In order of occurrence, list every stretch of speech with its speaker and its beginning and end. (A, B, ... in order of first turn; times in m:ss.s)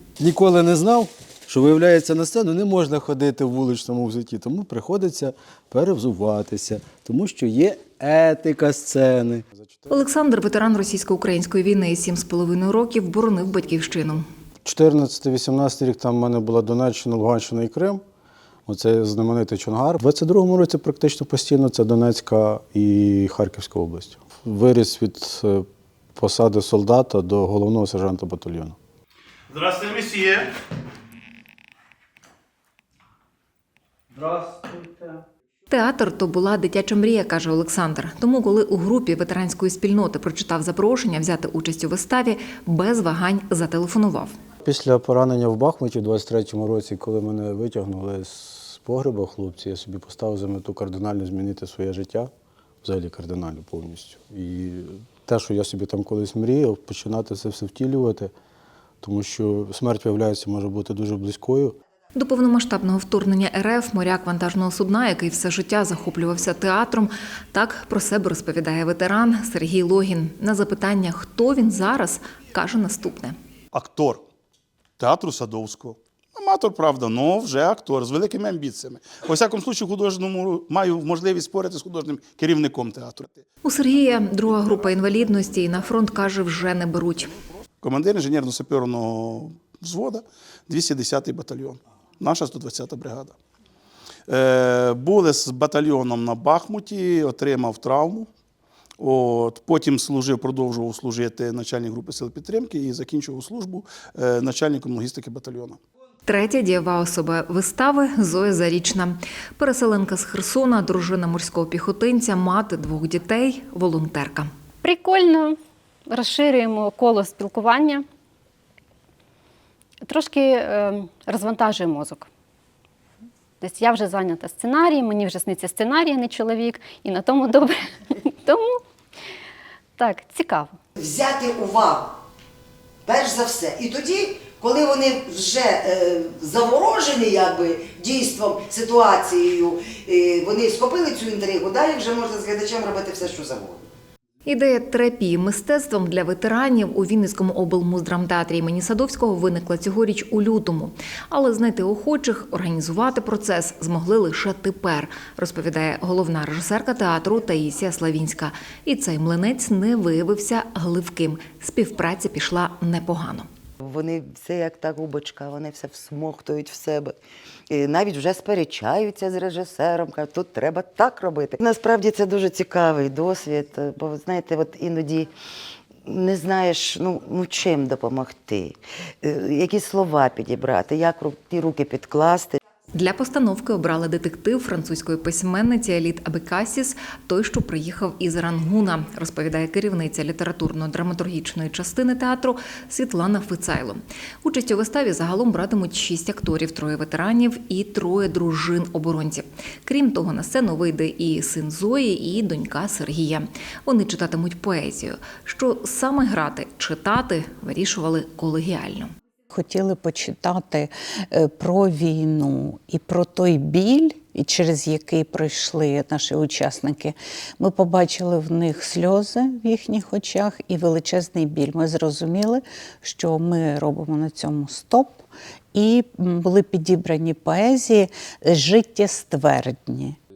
0:00.2-0:09.9 A
0:09.9-0:14.2 B
0:14.6-0:18.0 A
0:18.7-0:28.8 A
0:29.5-0:30.4 C
0:35.7-0:44.3 B
0:44.6-0:52.3 A
0:52.8-0:58.3 A
0:59.0-1:01.8 A
1:02.1-1:13.3 B
1:13.7-1:14.2 C
1:15.0-1:23.4 C
1:23.6-1:27.3 B
1:27.8-1:33.4 C
1:34.3-1:38.3 C
1:39.0-1:45.8 C
1:46.3-1:54.5 B
1:54.8-1:58.0 D
2:00.0-2:02.3 D
2:03.6-2:08.8 D
2:10.0-2:10.8 D
2:11.0-2:12.2 E
2:13.0-2:23.9 E
2:24.4-2:43.4 B
2:43.8-2:47.2 E
2:47.7-2:55.3 E
2:56.0-3:02.6 E
3:02.9-3:29.1 B
3:29.5-3:50.2 F